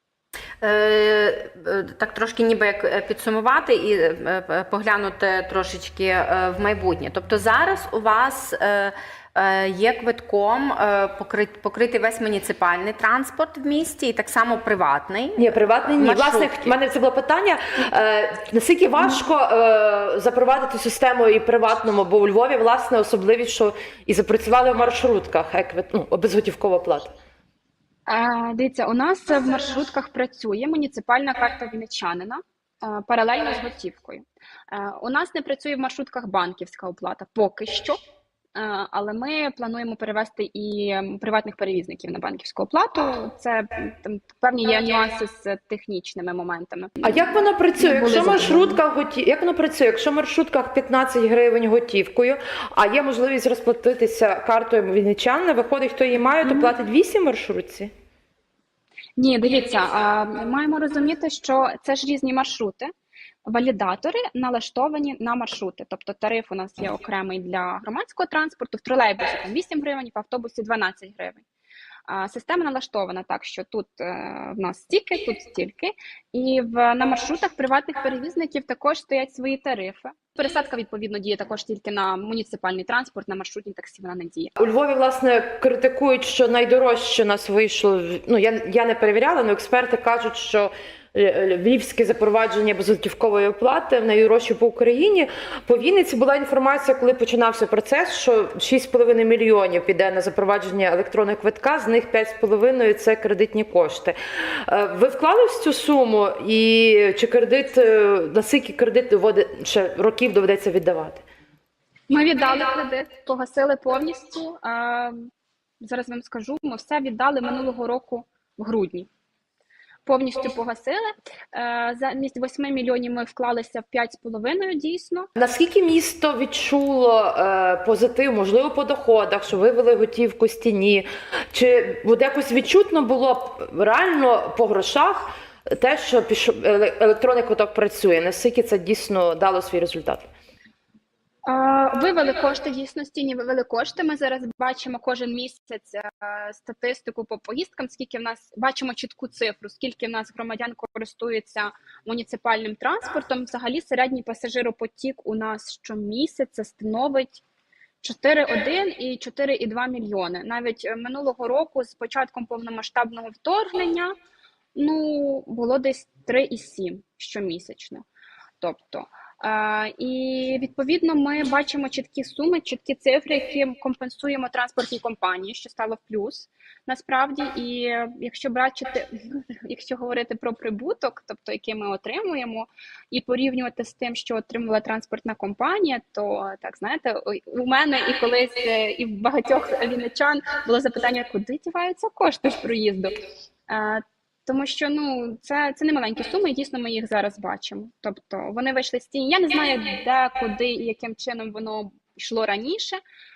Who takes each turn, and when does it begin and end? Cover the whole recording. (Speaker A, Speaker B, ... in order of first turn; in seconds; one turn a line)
Speaker A: 0.6-16.8
Speaker B: 15.4-27.1
Speaker C: 28.1-38.0
Speaker C: 38.5-48.8
Speaker B: 47.0-57.9
Speaker C: 56.4-56.7
Speaker C: 59.2-62.9
Speaker C: 63.5-71.5
Speaker C: 72.1-84.5
Speaker B: 84.6-111.2
Speaker C: 112.1-115.3
Speaker C: 115.8-119.1
Speaker C: 120.0-125.3
Speaker B: 125.4-140.3
Speaker C: 141.5-157.4
Speaker C: 158.0-164.2
Speaker C: 164.8-168.1
Speaker C: 168.6-193.2
Speaker C: 193.7-203.0